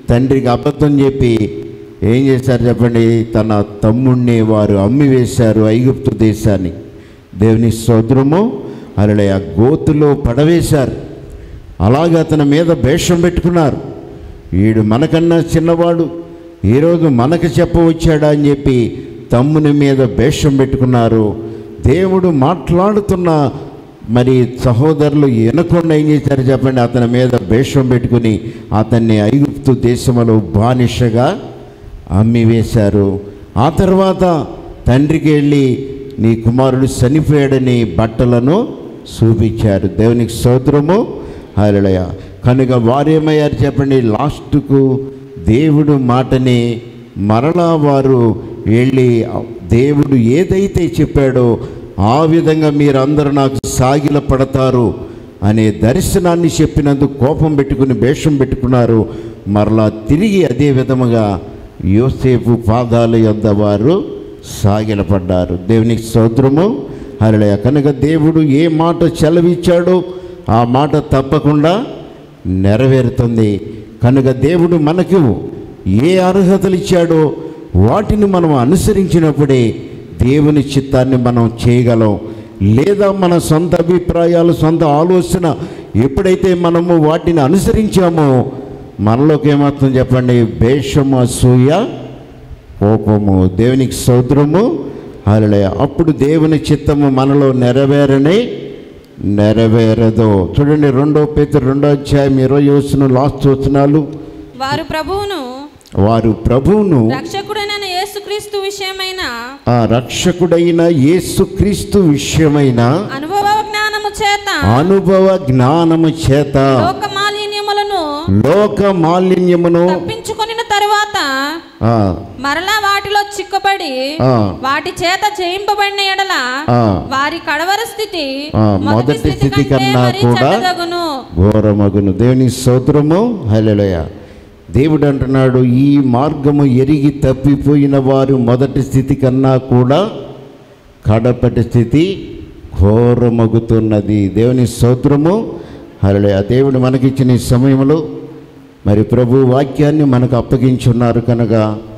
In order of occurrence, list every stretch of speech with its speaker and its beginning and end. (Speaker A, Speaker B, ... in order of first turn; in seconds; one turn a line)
Speaker A: 0.1-1.4
Speaker A: 2.1-6.8
Speaker A: 7.4-8.4
Speaker A: 9.0-10.9
Speaker A: 11.8-13.8
Speaker A: 14.6-16.1
Speaker A: 16.7-21.3
Speaker A: 21.9-23.4
Speaker A: 24.1-31.3
Speaker A: 32.2-33.1
Speaker A: 33.6-34.3
Speaker A: 34.9-35.7
Speaker A: 36.2-41.0
Speaker A: 41.6-44.9
Speaker A: 45.5-46.6
Speaker A: 47.3-49.2
Speaker A: 49.7-51.5
Speaker A: 52.1-54.9
Speaker A: 55.5-61.2
Speaker A: 61.9-64.0
Speaker A: 64.5-70.0
Speaker A: 70.5-71.8
Speaker A: 72.6-75.3
Speaker A: 76.0-77.2
Speaker A: 77.8-79.6
Speaker A: 80.2-82.2
Speaker A: 82.7-88.4
Speaker A: 89.0-91.8
Speaker A: 92.8-94.7
Speaker A: 95.3-98.4
Speaker A: 99.3-104.0
Speaker B: 104.6-105.4
Speaker A: 106.0-107.1
Speaker B: 107.1-109.3
Speaker A: 109.7-112.9
Speaker B: 113.1-114.8
Speaker A: 114.7-116.9
Speaker B: 116.6-118.0
Speaker A: 118.4-120.0
Speaker B: 119.9-121.3
Speaker A: 121.8-122.2
Speaker B: 122.4-124.0
Speaker A: 124.2-124.5
Speaker B: 124.6-126.4
Speaker A: 126.7-127.0
Speaker B: 127.1-128.3
Speaker A: 128.6-130.6
Speaker B: 128.8-131.1
Speaker A: 131.4-134.1
Speaker A: 134.7-140.0
Speaker A: 141.1-142.1
Speaker A: 142.8-145.4
Speaker A: 146.0-148.0
Speaker A: 148.9-151.7